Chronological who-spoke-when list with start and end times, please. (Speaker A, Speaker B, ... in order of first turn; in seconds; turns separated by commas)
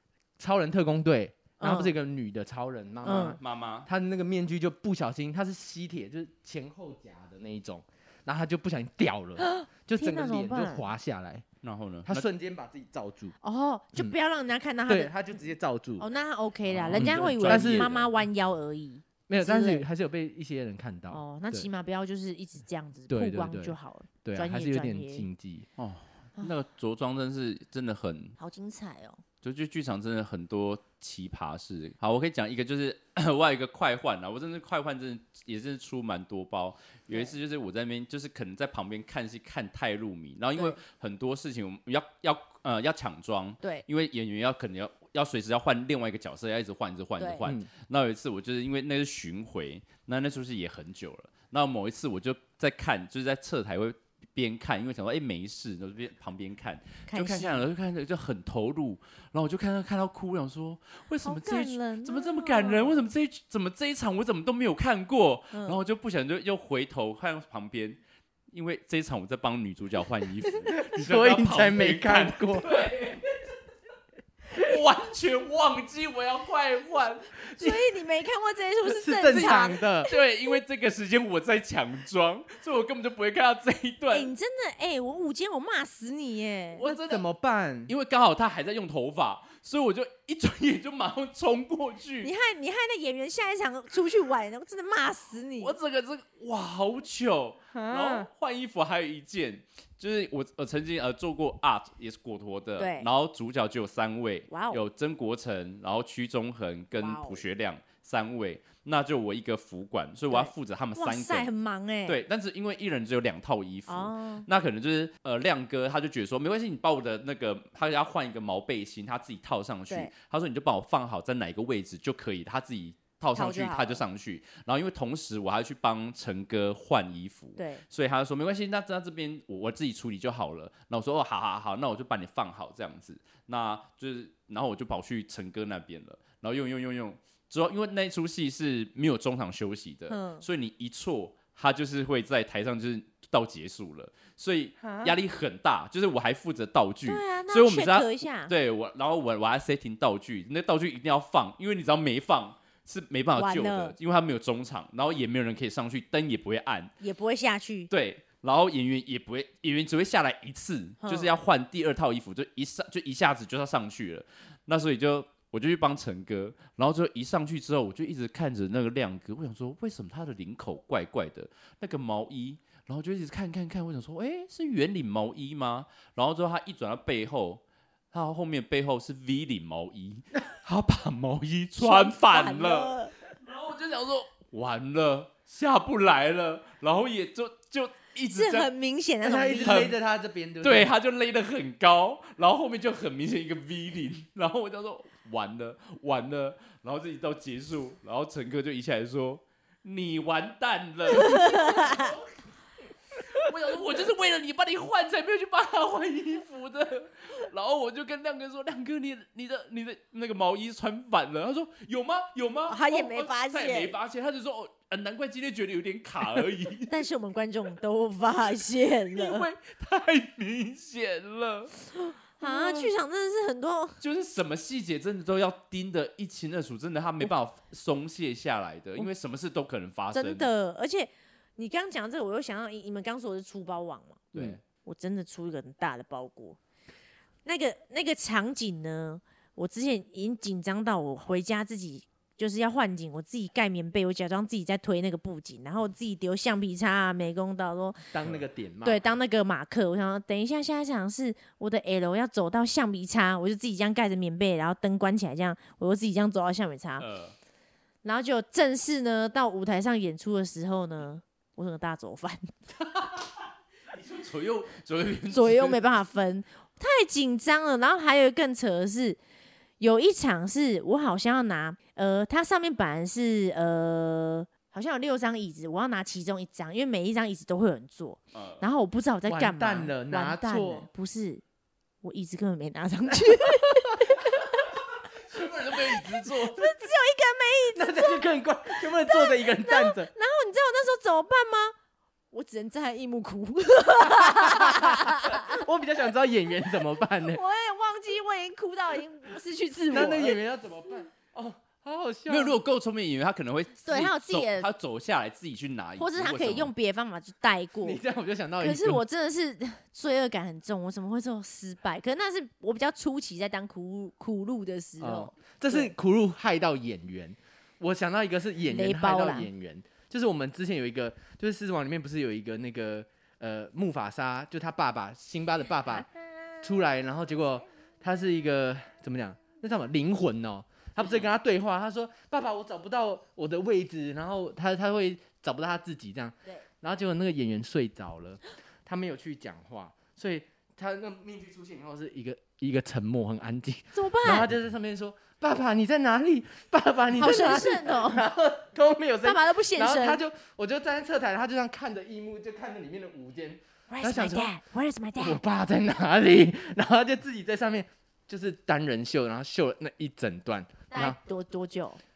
Speaker A: 0.4-11.5, Speaker B: 1.6-1.9, Speaker B: 3.0-3.4, Speaker C: 3.1-3.9, Speaker B: 9.4-10.9, Speaker C: 11.6-12.3, Speaker A: 12.1-13.3, Speaker B: 13.4-15.1, Speaker A: 14.9-16.1, Speaker B: 16.0-19.9, Speaker C: 16.7-18.1, Speaker A: 16.9-17.9, Speaker A: 19.3-21.7, Speaker B: 21.1-25.3, Speaker A: 23.1-25.7, Speaker C: 25.8-28.4, Speaker B: 28.4-29.2, Speaker C: 29.4-68.0, Speaker B: 47.2-47.5, Speaker B: 57.1-57.6, Speaker B: 61.2-63.0, Speaker B: 65.5-65.8, Speaker C: 68.5-73.4, Speaker A: 70.8-72.8, Speaker C: 74.5-77.8, Speaker B: 77.6-80.2, Speaker A: 78.8-80.1, Speaker C: 79.3-84.3, Speaker B: 84.1-86.9, Speaker C: 86.8-87.2, Speaker A: 86.9-87.9, Speaker C: 87.9-92.3, Speaker B: 92.2-95.8, Speaker C: 95.6-111.5, Speaker A: 97.7-98.3, Speaker B: 102.8-103.1, Speaker B: 104.5-104.8, Speaker B: 107.0-107.4, Speaker B: 110.3-112.2, Speaker C: 112.1-156.9, Speaker B: 113.9-114.5, Speaker B: 123.3-124.0, Speaker B: 127.6-127.8, Speaker B: 140.1-140.4, Speaker A: 144.8-145.2, Speaker B: 147.1-148.5, Speaker B: 153.3-153.9, Speaker B: 157.0-157.9, Speaker C: 157.9-188.7, Speaker B: 161.0-161.3, Speaker B: 181.8-183.1, Speaker B: 188.3-189.9, Speaker A: 189.2-190.9, Speaker C: 189.7-189.9, Speaker C: 190.6-202.3, Speaker B: 201.2-202.1, Speaker C: 203.3-216.9, Speaker B: 212.7-213.9, Speaker B: 216.9-219.5, Speaker C: 219.1-221.7, Speaker B: 222.4-224.0, Speaker C: 222.4-222.9, Speaker C: 224.0-230.5, Speaker B: 230.1-236.6, Speaker C: 234.3-234.6, Speaker B: 237.4-248.1, Speaker A: 248.1-249.2, Speaker B: 248.8-257.1, Speaker C: 257.0-257.3, Speaker B: 258.0-262.6, Speaker C: 263.9-265.8, Speaker B: 265.3-269.2, Speaker B: 269.8-281.4, Speaker C: 278.3-278.6, Speaker A: 279.3-280.9, Speaker B: 282.0-284.7, Speaker C: 285.2-286.7, Speaker B: 286.2-288.3, Speaker A: 287.8-290.1, Speaker B: 289.0-291.7, Speaker B: 292.3-295.6, Speaker A: 294.3-297.4, Speaker B: 297.1-300.4, Speaker A: 299.9-302.6, Speaker C: 302.3-306.7, Speaker B: 303.8-304.7, Speaker B: 306.0-308.0, Speaker A: 307.8-309.0, Speaker B: 308.6-315.9, Speaker A: 315.0-326.1, Speaker B: 318.7-319.5, Speaker A: 326.6-354.5, Speaker B: 343.9-344.5, Speaker B: 347.2-348.2, Speaker B: 349.2-350.2, Speaker B: 353.9-355.4, Speaker A: 355.2-361.2, Speaker B: 360.9-362.0